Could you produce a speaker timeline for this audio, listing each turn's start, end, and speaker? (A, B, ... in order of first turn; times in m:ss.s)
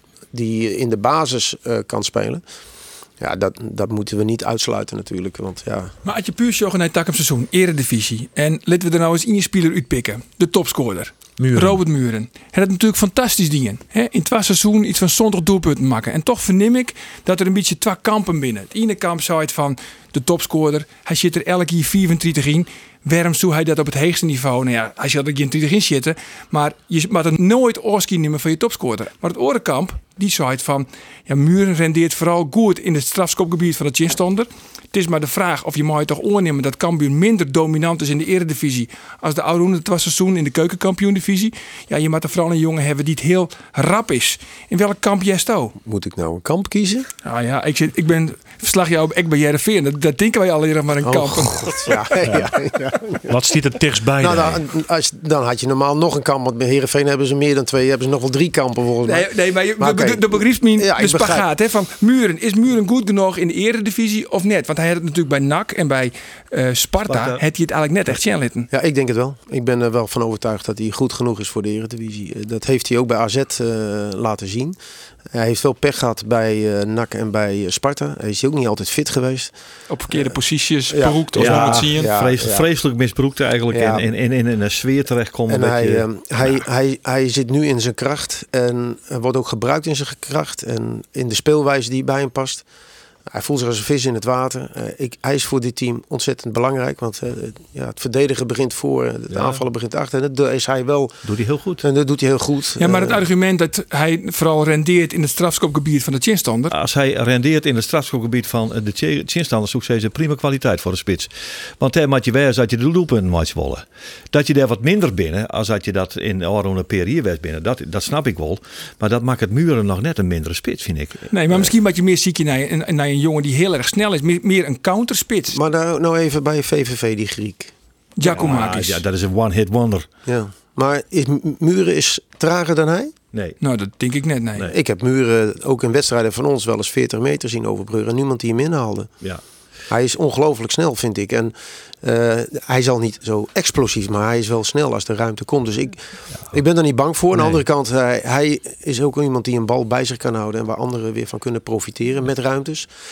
0:00.3-0:02.4 A
0:03.2-0:05.9 A
0:06.0-0:45.7 B
0:11.4-0:11.8 C
0:45.8-0:47.1 A
0:47.2-0:52.1 B
0:51.0-0:53.3 A
0:52.2-0:52.5 C
0:53.2-0:54.6 C
0:54.2-1:01.4 A
0:59.0-1:08.7 B
1:07.0-1:07.4 D
1:08.7-1:14.8 A
1:15.3-1:19.5 A
1:19.9-1:22.1 E
1:20.9-1:22.6 A
1:21.3-1:26.0 D
1:23.7-1:24.0 A
1:25.5-1:32.6 A
1:33.3-1:41.2 A
1:39.3-1:39.6 D
1:41.2-1:41.8 D
1:41.8-1:43.2 A
1:42.8-1:46.7 B
1:46.7-2:01.7 D
2:01.3-2:05.6 B
2:05.5-2:07.7 A
2:08.2-2:09.0 B
2:08.2-2:10.1 D
2:10.2-2:13.1 A
2:13.3-2:13.6 D
2:13.6-2:14.7 B
2:14.7-2:19.1 A
2:19.9-2:32.9 A
2:27.3-2:27.6 D